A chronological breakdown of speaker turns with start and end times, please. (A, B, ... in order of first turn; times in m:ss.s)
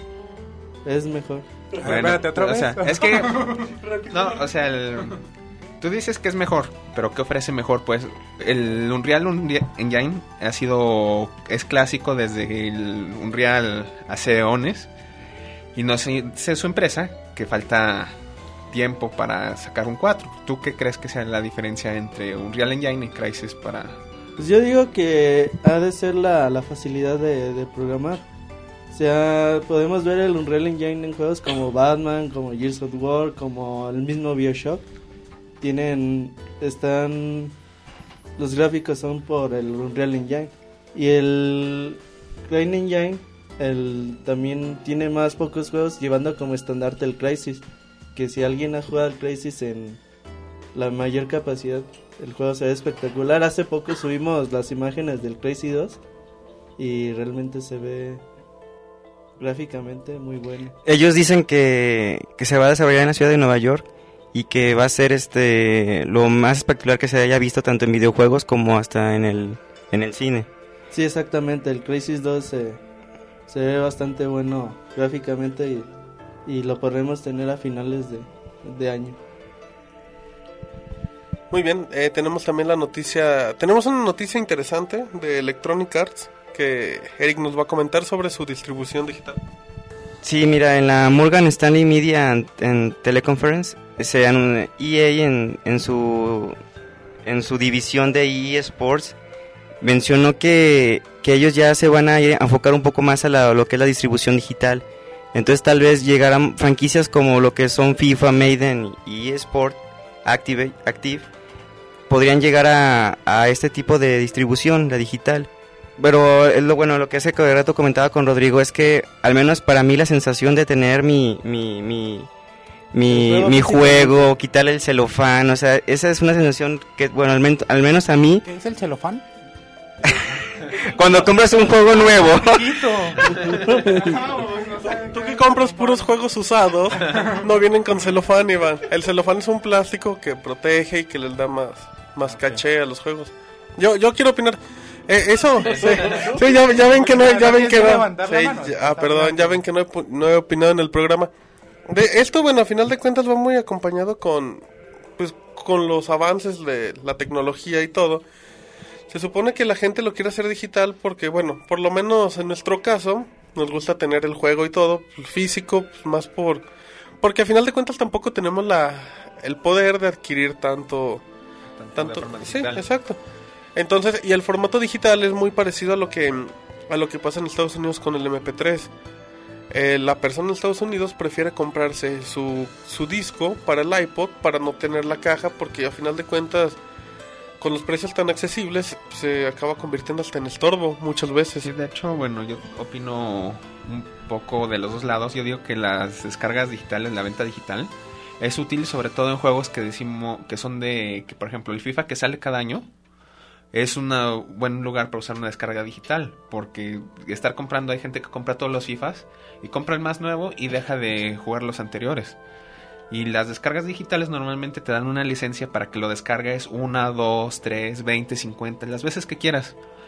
0:00.8-0:01.5 A
0:01.8-0:03.6 B
0:01.8-0:05.2 C
0:05.8-0:14.9 C
0:15.7-0:18.1 C
0:18.7-0:24.0 C
0:24.4-0:28.2 A
0:28.9-0:34.8 A
0:35.6-0:37.5 A
0:38.4-0:50.0 A
0:50.7-0:56.0 A
0:56.8-0:58.2 A
0:59.4-1:00.7 A
1:00.8-1:10.5 D
1:10.9-1:12.8 A
1:13.5-1:15.9 A
1:16.4-1:19.2 A
1:21.5-1:29.4 E
1:30.2-1:36.6 D
1:37.2-1:39.2 D
1:39.8-1:51.3 D
1:52.1-2:02.3 D
2:02.9-2:08.4 D
2:03.1-2:04.3 A
2:08.4-2:09.2 B
2:10.0-2:13.1 D
2:12.4-2:16.1 B
2:13.5-2:14.2 A
2:15.0-2:31.3 E
2:17.0-2:17.4 B
2:26.0-2:29.6 B
2:31.9-2:34.6 E
2:35.2-2:38.2 E
2:39.1-2:46.6 E
2:47.2-2:51.2 E
2:51.8-2:52.8 C
2:52.0-2:53.2 E
2:53.7-2:58.9 E
2:59.7-3:06.8 E
3:07.6-3:11.7 E
3:11.6-3:22.9 C
3:23.7-3:32.4 C
3:33.1-3:39.7 C